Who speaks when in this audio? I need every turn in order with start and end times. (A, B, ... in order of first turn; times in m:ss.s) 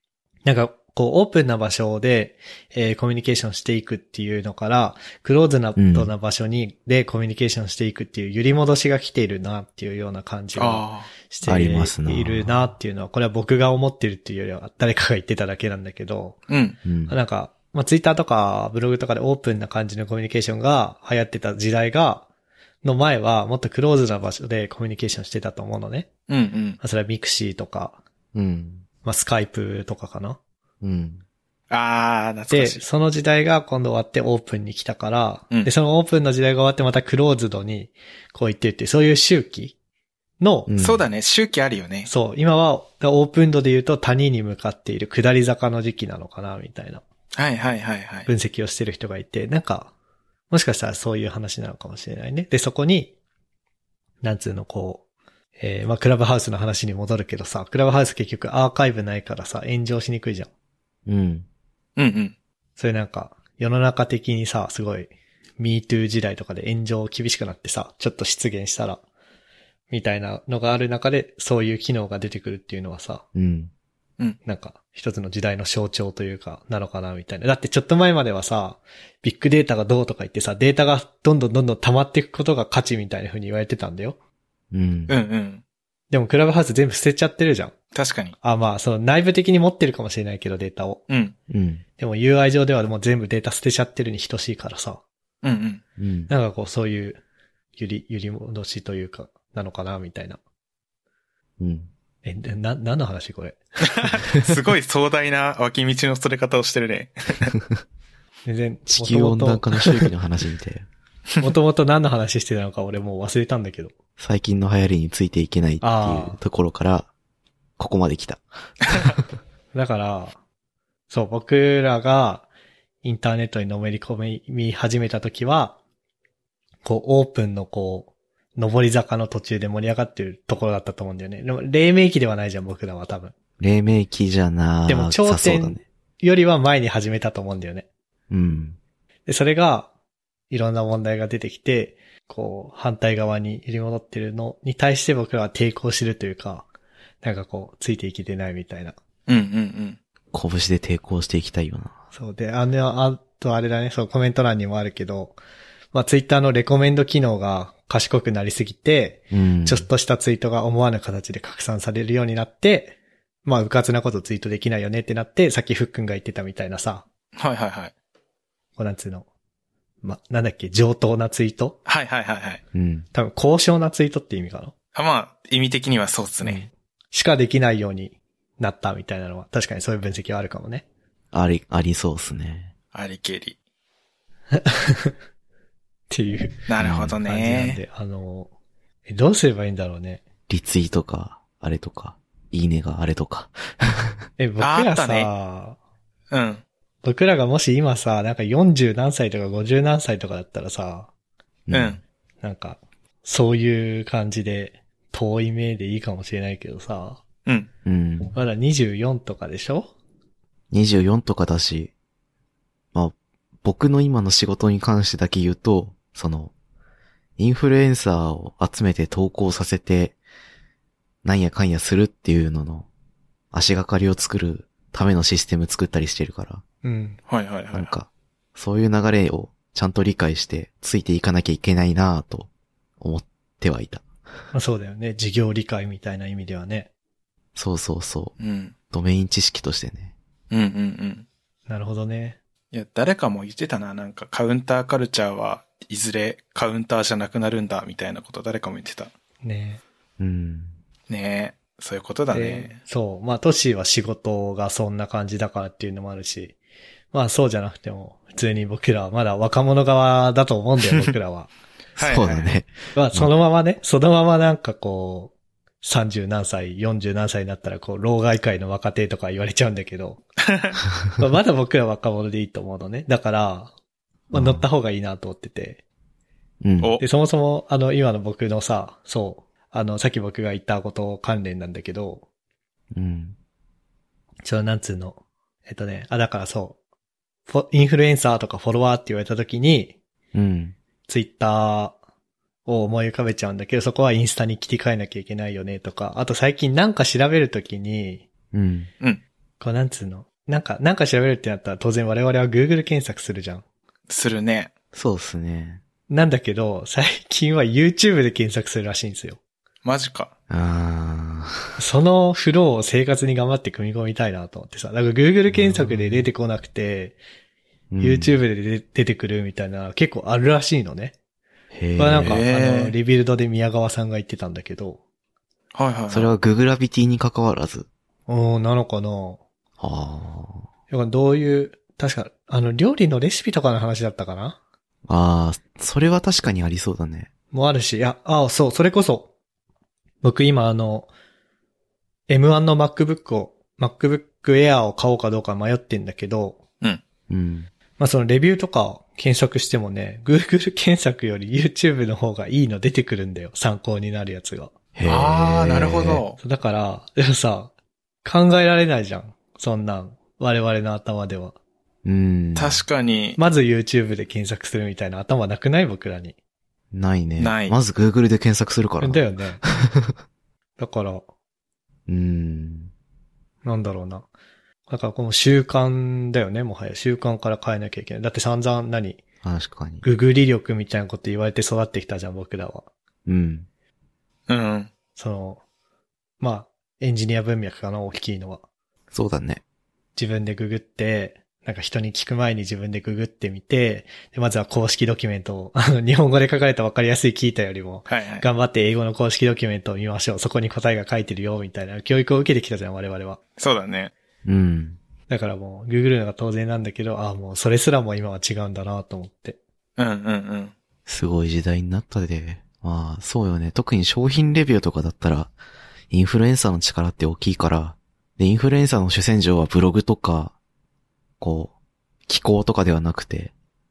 0:00.4-0:16.4 A
0:05.8-0:06.1 B
0:10.6-0:11.1 C
0:11.4-0:12.7 B
0:16.5-0:16.8 C
0:16.8-0:17.2 B
0:17.1-0:22.3 A
0:22.8-0:26.1 A
0:26.3-0:26.8 C
0:26.8-0:28.0 A
0:28.3-0:28.8 B
0:29.0-0:30.4 A
0:30.8-0:31.2 B
0:31.7-0:32.8 C
0:32.5-0:39.8 A
0:40.4-0:40.7 A
0:40.7-0:41.0 B
0:40.8-0:42.1 C
0:42.1-0:47.0 A
0:47.3-0:48.3 C
0:48.3-0:49.9 A
0:50.5-0:53.1 A
0:54.2-0:55.0 A
0:55.6-1:00.5 A
1:01.1-1:01.5 B
1:02.0-1:02.4 C
1:02.8-1:09.0 A
1:09.9-1:13.2 A
1:13.3-1:13.7 B
1:14.4-1:24.2 A
1:24.7-1:25.2 B
1:25.1-1:25.6 C
1:26.1-1:27.8 A
1:27.9-1:28.4 C
1:28.4-1:31.0 A
1:31.1-1:31.3 C
1:31.5-1:31.8 B
1:32.0-1:35.0 A
1:35.4-1:35.8 C
1:36.0-1:36.3 B
1:36.3-1:37.2 A
1:37.8-1:40.4 A
1:41.6-1:41.9 B
1:42.2-1:44.0 A
1:43.9-1:47.6 C
1:48.5-1:50.0 A
1:48.9-1:50.9 B
1:51.4-1:53.9 A
1:54.2-1:57.1 B
1:55.8-1:56.4 A
1:57.8-1:59.2 B
1:59.7-2:00.4 A
2:01.1-2:02.5 A
2:03.0-2:05.8 A
2:06.8-2:13.3 A
2:13.6-2:15.8 B
2:14.9-2:17.9 A
2:18.3-2:18.8 B
2:19.3-2:19.9 A
2:20.5-2:26.7 A
2:27.2-2:29.0 A
2:29.3-2:30.0 C
2:30.3-2:32.0 B
2:32.1-2:35.4 A
2:35.9-2:47.0 A
2:39.3-2:39.9 B
2:47.4-2:47.9 C
2:48.8-2:49.3 A
2:50.0-2:51.8 A
2:51.9-2:52.6 C
2:52.7-2:53.1 B
2:53.1-2:54.7 A
2:55.0-2:56.6 C
2:56.4-2:56.7 B
2:57.1-3:00.8 A
3:01.3-3:02.7 B
3:02.9-3:03.6 C
3:04.5-3:05.1 A
3:06.1-3:06.7 A
3:06.7-3:07.8 C
3:06.8-3:07.2 B
3:07.2-3:08.5 A
3:09.1-3:10.2 A
3:10.5-3:14.2 B
3:14.4-3:15.8 A
3:14.6-3:15.3 C
3:16.3-3:16.6 C
3:17.0-3:21.1 A
3:21.7-3:22.0 B
3:21.7-3:22.0 C
3:22.4-3:27.2 A
3:27.8-3:28.3 B
3:28.3-3:29.9 A
3:30.7-3:31.9 B
3:32.9-3:36.5 B
3:37.4-3:40.2 B
3:41.2-3:42.9 B
3:43.5-3:46.6 B
3:46.8-3:47.2 A
3:47.3-3:47.9 C
3:47.7-3:52.5 B
3:53.0-3:54.0 B
3:54.5-3:56.9 A
3:57.6-3:58.4 B
3:58.4-3:58.8 C
3:58.9-4:00.1 B
4:00.5-4:01.3 C
4:01.7-4:02.4 A
4:02.7-4:09.1 C
4:09.4-4:09.8 A
4:10.2-4:10.8 B
4:11.1-4:12.8 C
4:12.3-4:16.6 A
4:17.1-4:21.5 A
4:22.0-4:22.5 C
4:22.0-4:23.3 B
4:23.0-4:30.2 A
4:30.5-4:30.8 C
4:31.2-4:33.7 A
4:34.3-4:35.8 A
4:34.3-4:34.7 B
4:36.6-4:36.9 B
4:37.0-4:42.2 A
4:42.9-4:43.4 B
4:44.4-4:46.8 A
4:47.5-4:50.0 A
4:50.3-4:50.8 B
4:51.1-4:52.0 A
4:52.7-4:58.3 A
4:58.5-4:58.9 B
4:59.6-5:03.6 A
5:04.1-5:04.7 C
5:04.9-5:05.8 B
5:06.1-5:09.4 A
5:09.8-5:10.3 C
5:10.5-5:11.8 B
5:11.8-5:17.2 A
5:15.5-5:16.3 B
5:17.9-5:18.3 B
5:18.0-5:21.2 A
5:21.7-5:22.4 B
5:22.0-5:25.0 A
5:22.2-5:23.0 C
5:25.7-5:26.3 C
5:26.1-5:27.9 B
5:28.3-5:29.4 A
5:29.8-5:30.6 B
5:30.9-5:34.6 A
5:35.1-5:37.3 B
5:37.5-5:39.3 A
5:40.2-5:41.1 A
5:42.3-5:46.6 A
5:47.3-5:47.7 B
5:48.0-5:54.7 A
5:55.0-5:56.2 B
5:55.1-5:56.4 C
5:56.4-5:57.7 A
5:58.2-6:01.6 A
6:02.0-6:02.8 B
6:02.6-6:03.4 C
6:03.4-6:06.4 A
6:06.9-6:10.2 B
6:07.4-6:07.8 C
6:09.0-6:09.6 A
6:10.8-6:11.2 A
6:12.1-6:12.9 B
6:13.6-6:14.3 A
6:14.9-6:19.2 A
6:19.4-6:20.0 B
6:20.0-6:22.9 A
6:23.3-6:23.7 B
6:24.5-6:24.9 C
6:25.2-6:25.6 A
6:26.4-6:28.6 A
6:29.1-6:29.6 B
6:30.2-6:43.4 A
6:38.1-6:38.4 C
6:43.6-6:44.1 C
6:44.4-6:45.0 B
6:45.3-6:49.6 A
6:50.0-6:50.7 C
6:51.1-6:55.5 B
6:56.1-7:00.6 B
7:01.4-7:01.7 B
7:02.3-7:03.5 B